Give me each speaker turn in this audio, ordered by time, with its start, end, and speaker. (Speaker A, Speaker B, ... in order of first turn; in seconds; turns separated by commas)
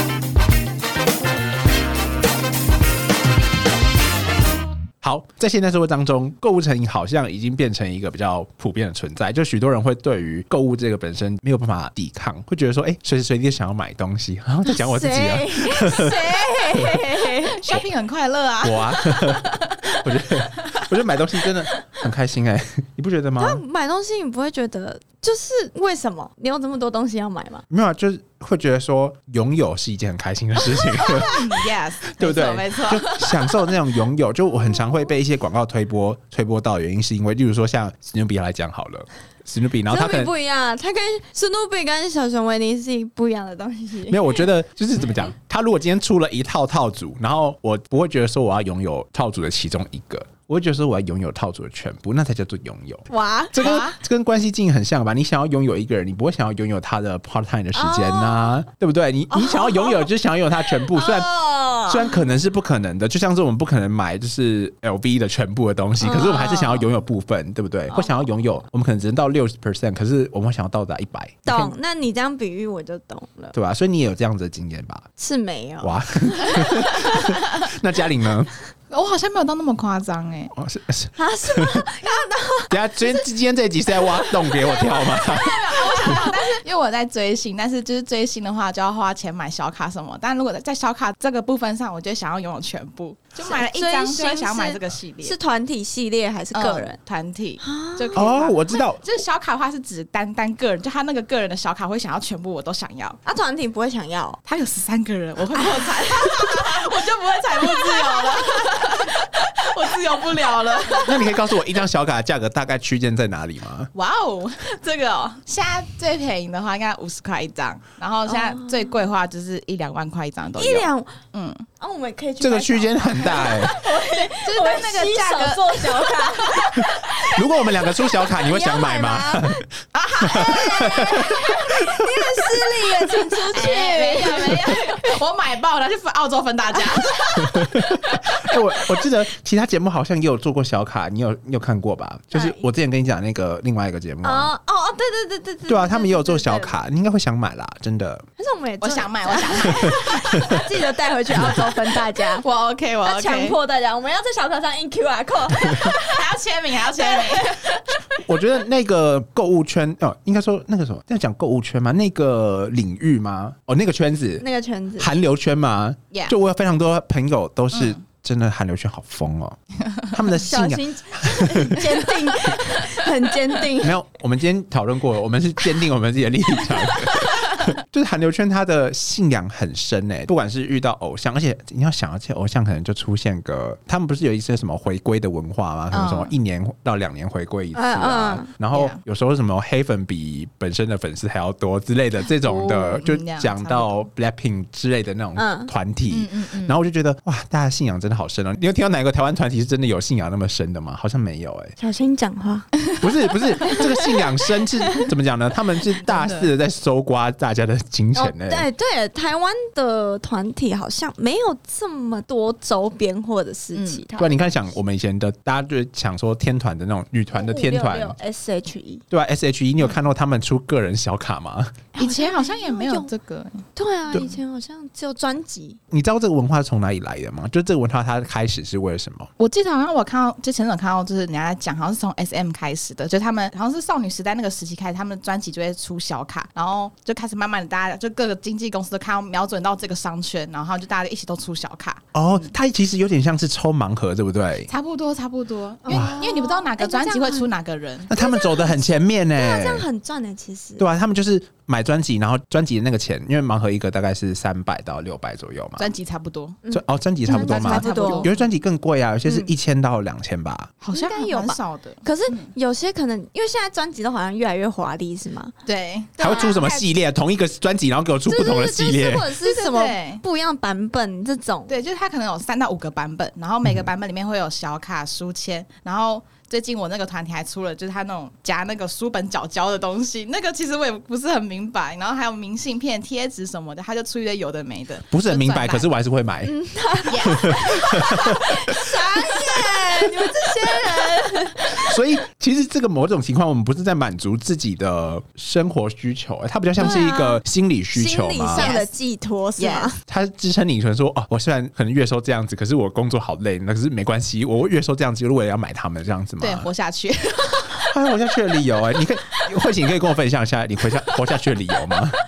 Speaker A: 5.0-16.2, Speaker B: 14.7-17.6, Speaker C: 17.4-20.8, Speaker A: 18.6-23.6, Speaker B: 23.4-27.6, Speaker A: 27.7-31.6, Speaker C: 31.1-33.7, Speaker A: 32.2-40.3, Speaker B: 39.9-44.4, Speaker A: 44.1-61.3, Speaker B: 53.1-53.8, Speaker C: 53.6-54.0, Speaker B: 57.7-58.5, Speaker B: 59.3-60.1, Speaker B: 60.7-62.3, Speaker A: 61.9-71.7, Speaker B: 66.0-66.9, Speaker B: 67.9-68.2, Speaker B: 71.5-73.5, Speaker A: 73.5-75.1, Speaker B: 75.2-77.3, Speaker A: 75.8-78.5, Speaker C: 78.9-80.5, Speaker A: 80.5-81.8, Speaker B: 81.2-83.2, Speaker A: 82.7-86.2, Speaker B: 84.0-86.6, Speaker C: 85.3-95.3, Speaker B: 93.4-97.0, Speaker C: 96.5-103.2, Speaker B: 97.6-98.3, Speaker A: 98.1-99.0, Speaker B: 103.2-104.4, Speaker C: 104.5-111.4, Speaker B: 105.6-106.6, Speaker B: 107.6-108.5, Speaker A: 111.0-113.9, Speaker C: 113.9-121.7, Speaker B: 118.3-118.8, Speaker B: 120.5-121.2, Speaker B: 121.8-129.6, Speaker A: 122.4-123.8, Speaker C: 123.3-126.8, Speaker A: 126.8-129.7, Speaker C: 129.9-131.3, Speaker B: 130.1-135.2, Speaker A: 130.2-132.2, Speaker C: 133.5-139.0, Speaker B: 136.7-137.3, Speaker A: 137.4-144.5, Speaker B: 142.3-142.6, Speaker B: 144.2-146.8, Speaker A: 145.7-148.3, Speaker B: 148.4-152.4, Speaker C: 148.8-150.2, Speaker C: 152.2-153.6, Speaker B: 153.0-156.2, Speaker C: 155.6-157.8, Speaker B: 157.0-157.7, Speaker A: 158.2-164.4, Speaker B: 164.4-165.1, Speaker A: 165.0-169.6, Speaker A: 170.1-172.3, Speaker B: 170.4-173.9, Speaker A: 173.8-201.7, Speaker C: 185.9-186.3, Speaker B: 187.7-188.5, Speaker C: 188.7-189.0, Speaker C: 192.4-194.1, Speaker B: 195.3-195.7, Speaker C: 196.1-196.8, Speaker B: 201.8-202.7, Speaker A: 203.0-208.7, Speaker C: 206.0-206.5, Speaker B: 208.1-214.4, Speaker C: 213.7-214.0, Speaker A: 214.2-218.2, Speaker B: 217.3-219.0, Speaker A: 219.1-221.8, Speaker B: 221.9-223.1, Speaker C: 222.0-223.7, Speaker B: 223.8-225.8, Speaker A: 225.9-229.3, Speaker C: 229.4-242.5, Speaker A: 242.1-244.7, Speaker C: 244.7-248.1, Speaker B: 245.8-247.5, Speaker A: 245.9-246.2, Speaker A: 248.1-249.8, Speaker B: 248.1-250.8, Speaker A: 250.8-255.9, Speaker C: 255.8-256.6, Speaker B: 256.6-258.3, Speaker A: 256.7-260.7, Speaker C: 257.3-258.5, Speaker B: 259.2-259.5, Speaker C: 260.8-262.5, Speaker B: 260.9-265.5, Speaker C: 265.6-266.9, Speaker A: 266.2-269.3, Speaker B: 268.3-271.7, Speaker C: 269.4-270.2, Speaker C: 271.7-285.9, Speaker A: 285.1-286.5, Speaker B: 286.4-292.0, Speaker C: 287.1-287.9, Speaker A: 287.2-289.9, Speaker A: 291.7-298.7, Speaker B: 296.8-297.4, Speaker B: 297.9-300.0, Speaker C: 298.5-298.9, Speaker C: 299.6-299.9, Speaker A: 300.1-306.7, Speaker C: 306.4-307.9, Speaker A: 307.9-312.2